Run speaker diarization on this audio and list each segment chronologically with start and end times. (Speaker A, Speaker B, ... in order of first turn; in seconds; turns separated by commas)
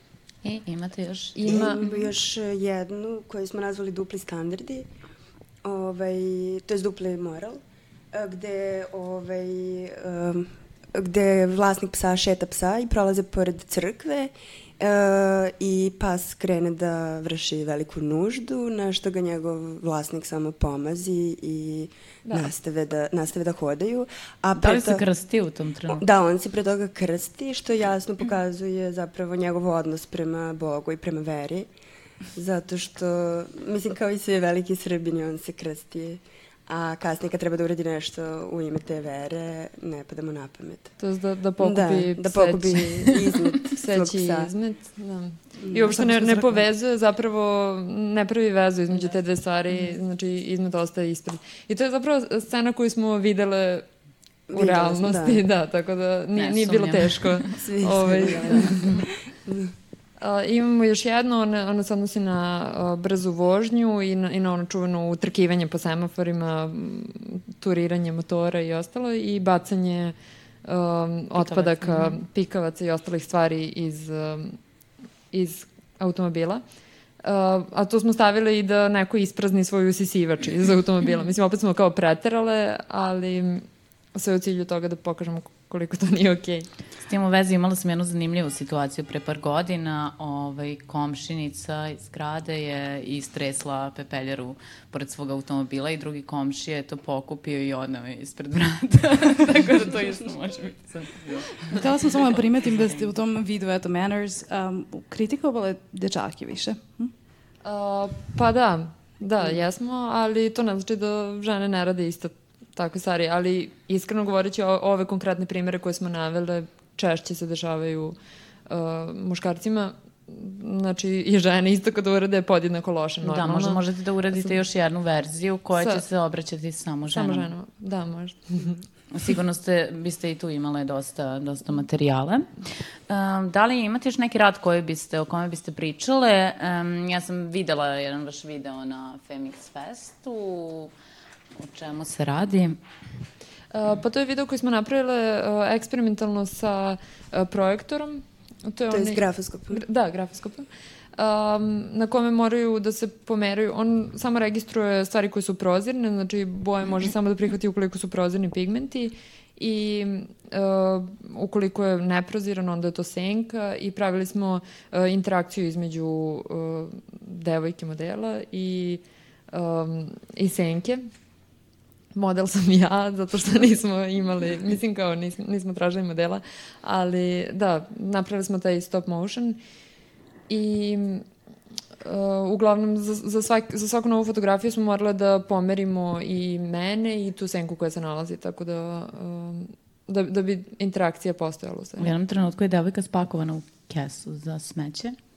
Speaker A: 0.4-1.7, Speaker B: 1.4-1.9, Speaker C: 1.4-4.9, Speaker C: 5.6-7.6, Speaker C: 8.1-25.0, Speaker A: 24.6-26.1, Speaker C: 25.9-31.7, Speaker C: 32.4-40.9, Speaker B: 41.0-53.9, Speaker C: 41.6-44.5, Speaker C: 45.6-46.0, Speaker D: 45.9-46.6, Speaker C: 54.5-55.4, Speaker B: 54.5-58.7, Speaker A: 56.4-57.5, Speaker C: 57.6-59.7, Speaker B: 60.2-74.6, Speaker A: 71.4-72.2, Speaker B: 75.3-76.6, Speaker B: 77.2-86.7, Speaker A: 87.1-101.8, Speaker D: 101.7-107.1, Speaker B: 107.6-118.2, Speaker B: 118.7-123.8, Speaker A: 123.2-127.5, Speaker B: 125.8-126.0, Speaker B: 127.1-128.8, Speaker A: 129.1-132.5, Speaker A: 133.1-140.9, Speaker A: 141.6-142.8, Speaker B: 143.7-171.0, Speaker C: 148.9-149.8, Speaker B: 172.1-179.6, Speaker B: 180.5-181.3, Speaker B: 182.0-192.1, Speaker A: 192.0-195.2